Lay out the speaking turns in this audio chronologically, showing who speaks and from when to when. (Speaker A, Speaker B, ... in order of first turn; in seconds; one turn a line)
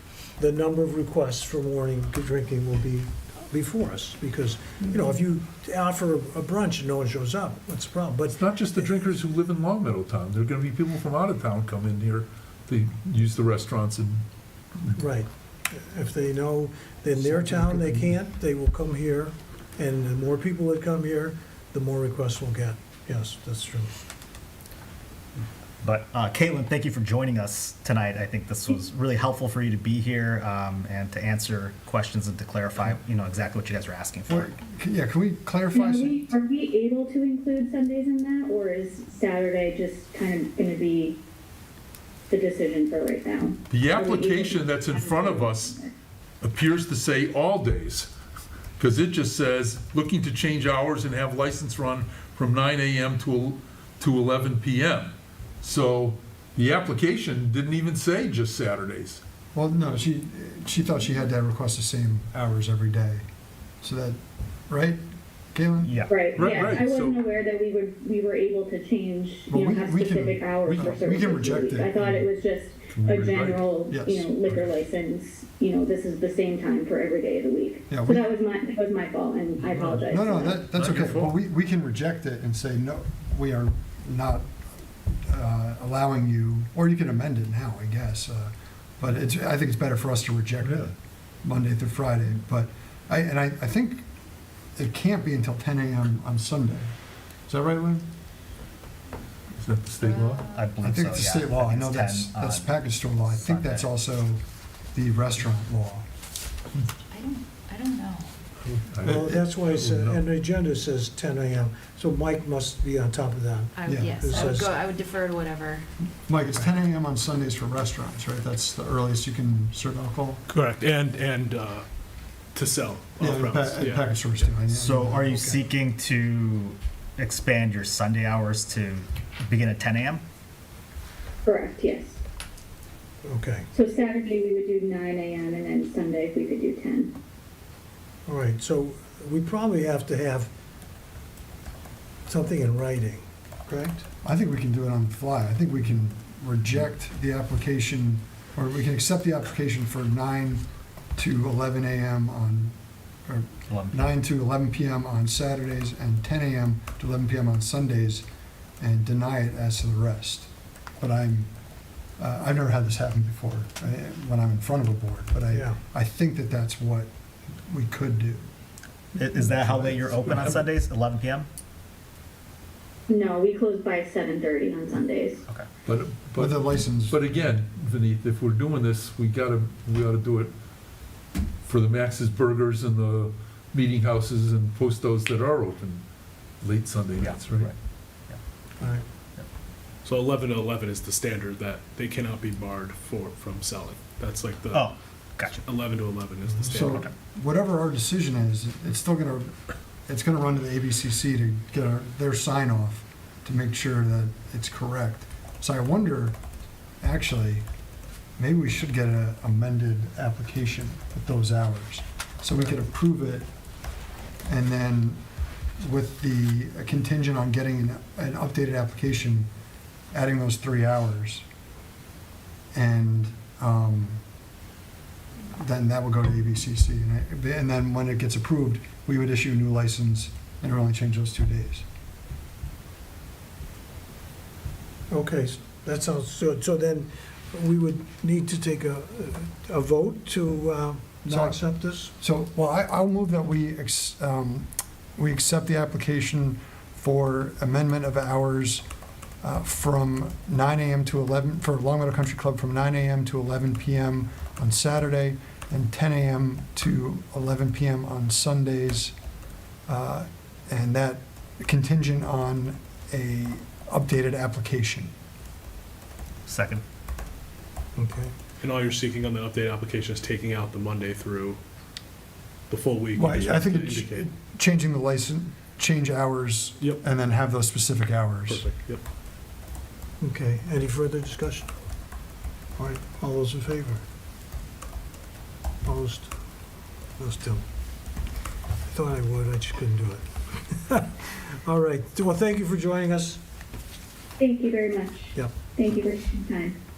Speaker A: 0.4-9.0
Speaker B: 8.3-14.2
Speaker A: 14.9-23.9
Speaker B: 17.2-18.1
Speaker C: 25.8-34.5
Speaker D: 34.3-36.2
Speaker E: 35.7-41.2
Speaker E: 42.3-45.9
Speaker B: 43.7-45.8
Speaker B: 46.4-48.1
Speaker B: 48.8-59.2
Speaker D: 59.5-63.2
Speaker D: 63.8-65.0
Speaker D: 65.5-66.0
Speaker C: 65.8-66.1
Speaker E: 66.1-80.7
Speaker B: 66.3-67.2
Speaker D: 69.5-72.3
Speaker B: 72.9-73.6
Speaker D: 73.9-74.4
Speaker D: 77.9-78.2
Speaker B: 79.7-80.0
Speaker D: 80.0-84.5
Speaker B: 80.7-81.3
Speaker D: 85.2-94.0
Speaker B: 90.6-90.9
Speaker D: 94.8-96.9
Speaker D: 97.5-98.0
Speaker B: 99.5-100.5
Speaker F: 100.0-100.7
Speaker C: 100.5-103.9
Speaker D: 100.8-104.4
Speaker D: 104.9-106.0
Speaker F: 107.1-108.3
Speaker B: 108.7-110.2
Speaker A: 109.0-114.7
Speaker F: 113.8-115.9
Speaker D: 113.8-114.3
Speaker D: 116.2-120.4
Speaker G: 120.5-121.8
Speaker G: 122.5-124.2
Speaker D: 123.2-125.4
Speaker C: 124.7-130.2
Speaker A: 125.3-125.6
Speaker E: 131.4-132.2
Speaker A: 133.2-133.7
Speaker E: 133.7-137.1
Speaker A: 138.2-140.5
Speaker A: 142.3-144.1
Speaker D: 144.2-150.6
Speaker D: 151.2-152.8
Speaker D: 153.3-158.2
Speaker C: 153.7-154.1
Speaker D: 158.8-161.5
Speaker D: 162.2-168.5
Speaker A: 165.5-165.8
Speaker C: 169.2-171.5
Speaker B: 169.3-170.7
Speaker E: 173.1-175.4
Speaker B: 175.8-180.5
Speaker D: 176.3-177.2
Speaker B: 181.6-186.0
Speaker B: 186.6-187.7
Speaker C: 187.2-187.7
Speaker A: 188.8-189.0
Speaker G: 190.0-194.9
Speaker C: 194.7-195.6
Speaker G: 195.6-197.1
Speaker D: 196.7-199.5
Speaker D: 200.1-206.4
Speaker D: 207.0-207.6
Speaker D: 208.4-213.5
Speaker D: 214.4-215.2
Speaker D: 215.8-219.5
Speaker D: 220.1-221.4
Speaker D: 222.7-224.2
Speaker D: 225.5-231.8
Speaker A: 235.1-242.1
Speaker D: 241.3-241.6
Speaker D: 242.2-248.8
Speaker D: 249.4-259.1
Speaker D: 259.9-265.1
Speaker C: 266.5-266.8
Speaker A: 267.9-268.3
Speaker G: 268.6-271.6
Speaker G: 272.7-274.3
Speaker D: 273.1-278.6
Speaker G: 278.5-279.0
Speaker A: 280.2-281.7
Speaker A: 282.8-284.0
Speaker A: 285.8-286.3
Speaker A: 287.2-287.6
Speaker A: 288.9-293.4
Speaker E: 294.4-296.8